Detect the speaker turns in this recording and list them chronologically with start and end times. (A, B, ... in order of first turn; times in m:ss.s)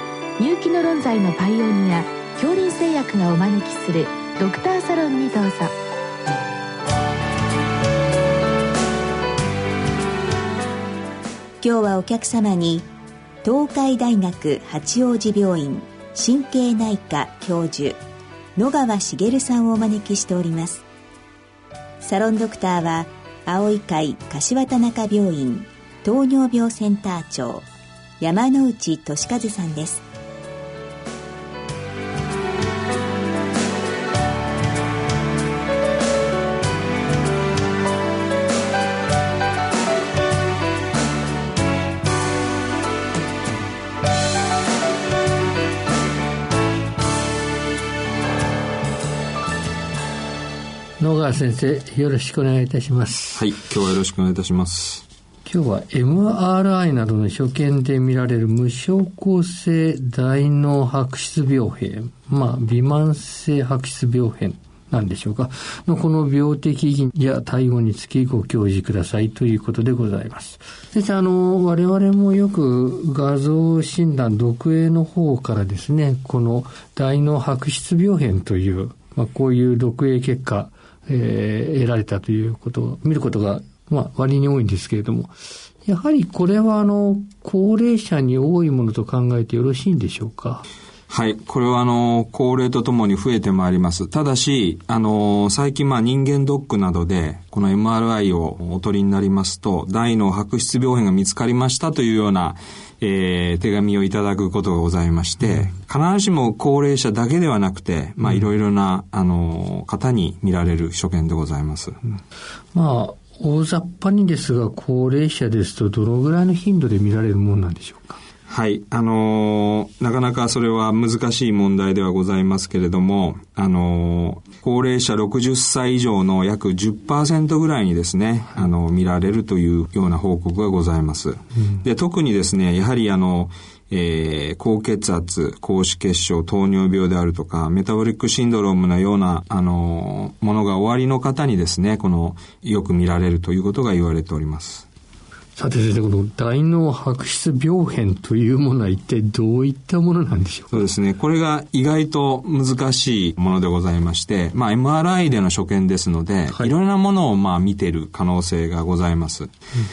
0:00.4-0:05.7 A
0:11.6-0:12.9 B
0:13.4-0:18.0 B
0:18.6-0:20.8 B
0:22.0-0:27.6 B
0:28.2-0:30.0 B
0:51.0-0:53.4 C
0:53.3-0:55.0 D
0:55.4-1:25.3 C
1:25.8-1:30.6 C
1:31.1-1:52.0 D
1:52.7-1:58.2 C
1:58.5-2:24.8 D
2:25.6-2:30.9 C
2:30.7-2:39.5 D